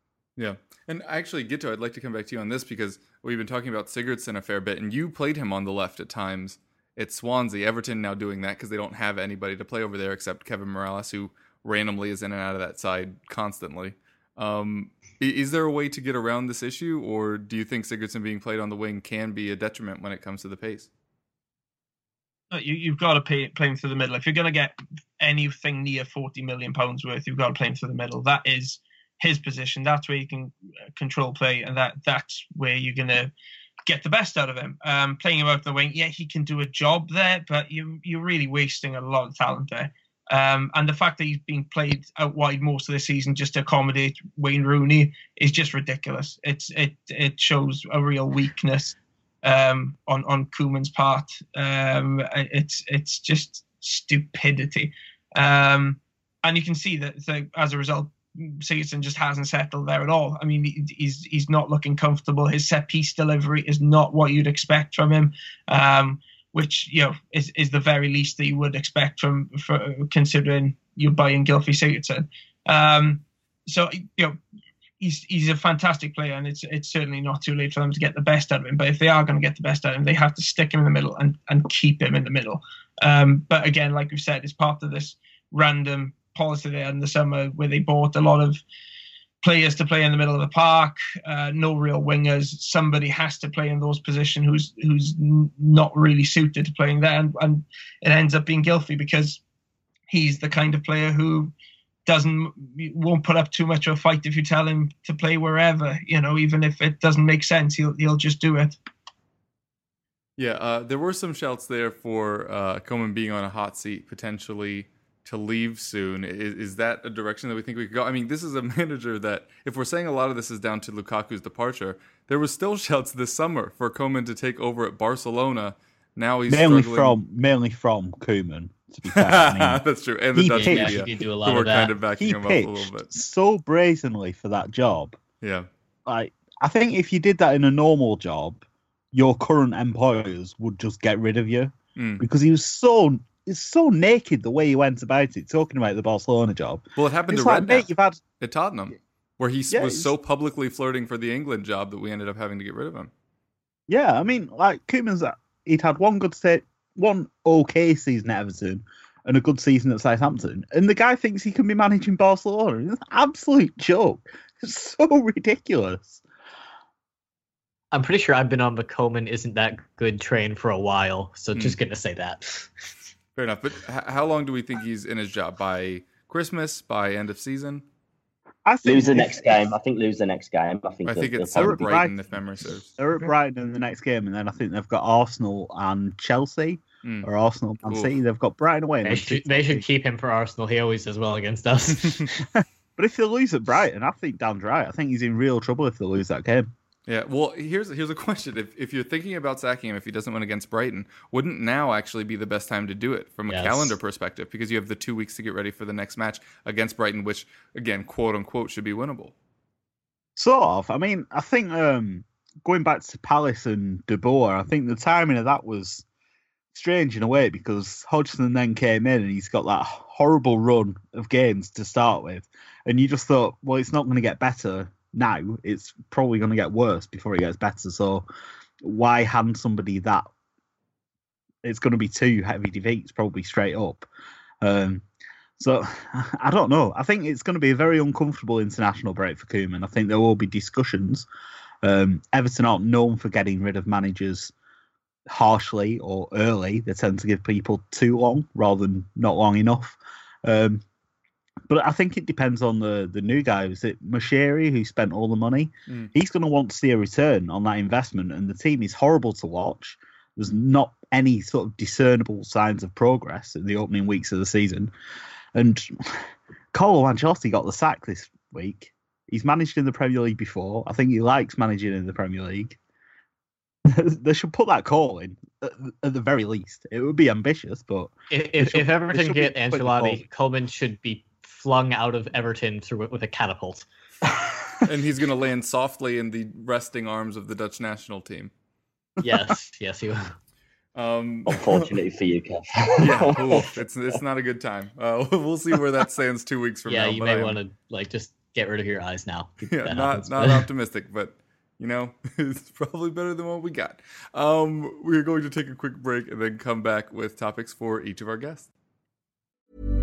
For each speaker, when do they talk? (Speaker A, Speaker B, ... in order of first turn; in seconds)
Speaker A: 0.4-20.9, 110.4-127.2, 129.1-133.1, 135.4-135.7, 142.0-142.2, 147.0-147.9, 148.4-153.1, 173.4-177.8, 181.1-182.9, 187.0-187.3, 187.8-188.1, 197.1-209.3, 284.8-288.5, 290.9-291.9, 293.0-297.6, 299.7-308.7
Speaker B: 22.5-33.3, 33.9-74.4, 75.0-88.6, 89.4-99.4, 100.1-101.5, 102.1-108.8
Speaker C: 126.5-129.8, 130.3-131.1, 132.2-135.2, 136.1-148.2, 149.7-150.1, 153.9-166.2, 178.7-179.7, 181.5-182.2, 183.0-189.9, 193.0-196.7, 210.4-216.1, 216.7-228.2, 228.8-230.2, 231.6-234.1, 234.6-235.0, 235.6-241.3, 241.8-244.5, 245.3-250.8, 251.7-264.9, 265.6-272.8, 273.9-280.3
Speaker D: 130.6-131.9, 167.9-172.7, 189.1-192.3, 203.5-204.0, 278.3-283.9, 289.2-290.3, 296.9-300.7
Speaker E: 178.8-181.8, 291.5-293.7